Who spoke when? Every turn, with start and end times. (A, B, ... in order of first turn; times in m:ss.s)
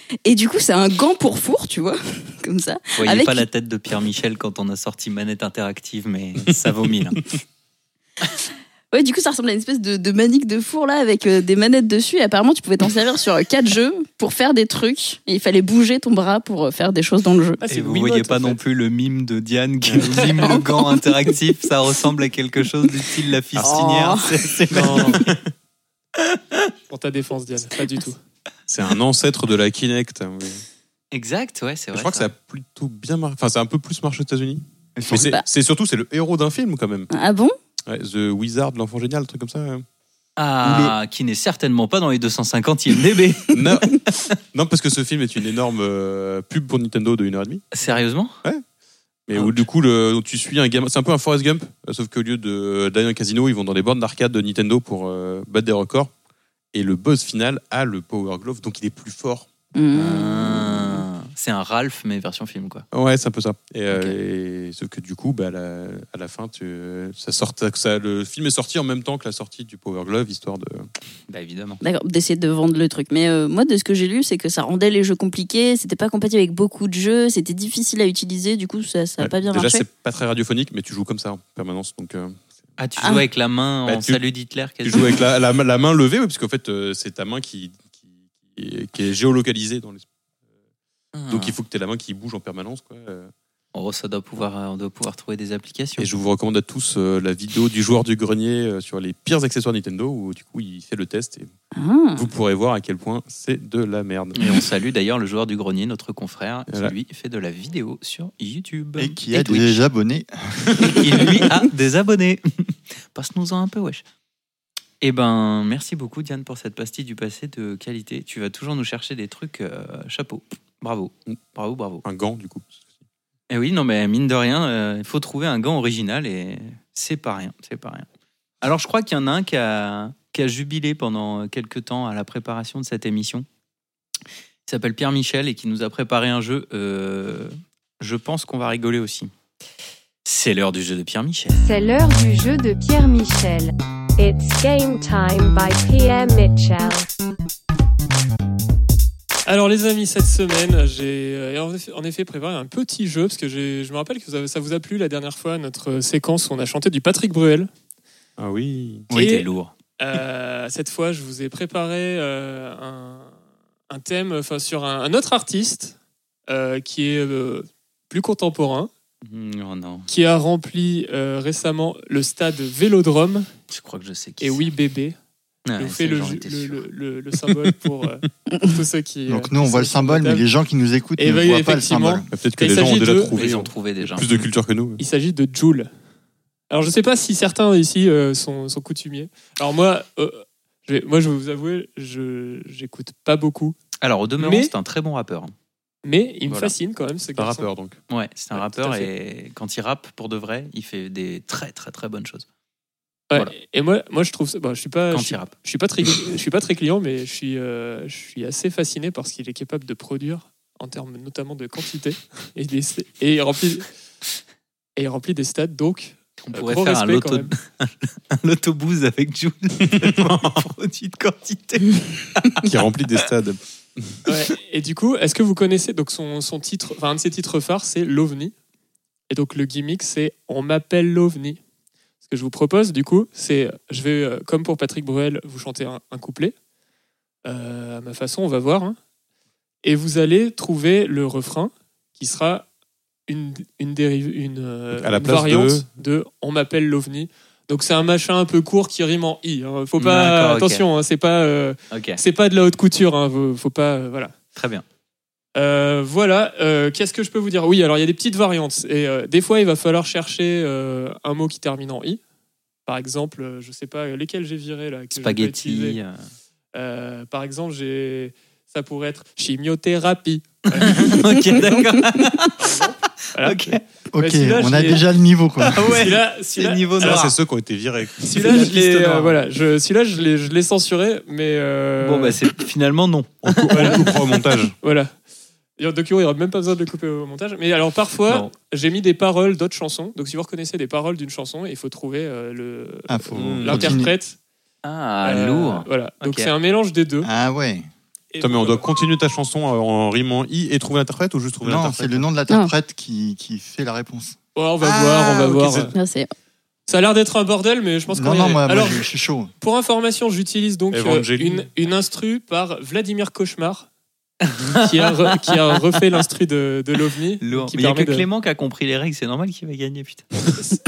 0:00.2-0:03.4 A
0:03.0-0:07.3 B
0:08.9-0:17.6 A
0:17.6-0:18.6 C
0:17.7-0:25.3 B
0:20.3-0:21.2 A
0:23.6-0:24.3 A
0:24.7-0:25.2 C
0:26.2-0:26.6 B
0:26.9-0:28.2 C
0:28.7-0:30.6 D
0:31.1-0:32.3 B
0:31.9-0:37.1 D
0:35.0-0:35.3 E
0:35.1-0:35.4 A
0:37.1-0:37.5 A
0:37.9-0:39.8 D
0:40.4-0:44.3 B
0:40.6-0:40.9 D
0:43.5-0:43.9 D
0:44.5-0:47.6 D
0:47.7-0:48.4 B
0:49.3-0:56.1 D
0:49.3-0:49.6 B
0:56.7-0:59.5 D
0:59.7-1:01.0 A
0:59.9-1:02.8 B
1:02.9-1:10.9 D
1:11.3-1:11.8 B
1:11.8-1:19.8 A
1:19.2-1:22.5 D
1:22.8-1:25.1 B
1:23.0-1:23.2 A
1:23.8-1:24.2 D
1:24.8-1:27.9 D
1:28.4-1:30.0 D
1:31.1-1:31.6 B
1:31.3-1:33.3 D
1:33.7-1:36.1 B
1:36.0-1:41.5 D
1:41.8-1:42.3 A
1:42.2-1:44.6 D
1:44.3-1:49.8 B
1:46.7-1:46.9 D
1:49.0-1:51.3 E
1:50.8-1:54.0 B
1:55.0-2:02.0 B
2:02.0-2:02.8 D
2:03.5-2:08.0 B
2:08.6-2:13.4 B
2:14.7-2:19.3 B
2:20.2-2:21.7 B
2:21.6-2:27.0 F
2:29.5-2:37.7 C
2:38.4-2:39.1 D
2:39.1-2:39.7 B
2:39.1-2:39.4 C
2:40.0-2:43.3 C
2:43.9-2:45.9 C
2:46.5-2:48.9 C
2:49.2-2:50.1 B
2:50.1-2:53.5 C
2:53.7-2:54.6 B
2:54.4-2:55.2 C
2:55.6-2:56.8 B
2:55.8-3:00.4 C
2:59.3-3:02.3 E
3:01.2-3:03.4 C
3:02.3-3:05.0 D
3:03.3-3:04.5 B
3:05.0-3:05.9 C
3:06.7-3:13.8 C
3:14.0-3:15.5 B
3:14.4-3:14.7 C
3:16.0-3:17.7 C
3:16.5-3:16.7 B
3:17.4-3:18.0 D
3:18.1-3:22.4 B
3:18.5-3:19.1 C
3:23.3-3:33.9 C
3:25.1-3:25.5 B
3:35.0-3:37.5 C
3:36.4-3:42.7 B
3:39.9-3:40.6 D
3:42.6-3:44.2 D
3:44.2-3:48.5 C
3:49.3-3:51.6 C
3:52.2-3:56.5 C
3:57.4-3:59.0 C
3:59.8-4:02.7 C
4:03.3-4:14.3 C
4:04.9-4:05.9 D
4:10.0-4:10.8 B
4:11.9-4:12.2 B
4:14.5-4:14.8 B
4:15.6-4:22.2 C
4:22.8-4:26.0 C
4:25.1-4:26.2 B
4:26.7-4:31.2 C
4:30.8-4:32.7 B
4:32.6-4:35.0 C
4:33.4-4:33.8 B
4:34.1-4:35.9 E
4:35.6-4:37.4 B
4:35.9-4:37.3 C
4:37.0-4:39.4 D
4:38.2-4:42.4 C
4:42.0-4:44.1 B
4:43.4-4:44.7 D
4:43.7-4:44.1 C
4:44.8-4:45.1 C
4:45.8-4:54.4 C
4:53.1-4:54.1 E
4:53.3-4:53.9 D
4:54.8-4:56.5 B
4:55.2-4:57.3 C
4:57.2-4:57.9 E
4:58.3-4:58.9 C
4:58.4-5:02.3 D
5:01.6-5:04.4 E
5:02.5-5:02.7 A
5:04.5-5:05.9 C
5:04.8-5:05.9 D
5:05.9-5:06.3 A
5:06.9-5:09.1 C
5:08.1-5:09.5 E
5:09.6-5:13.9 C
5:10.9-5:11.7 D
5:14.5-5:14.8 B
5:14.8-5:18.3 C
5:17.4-5:20.3 B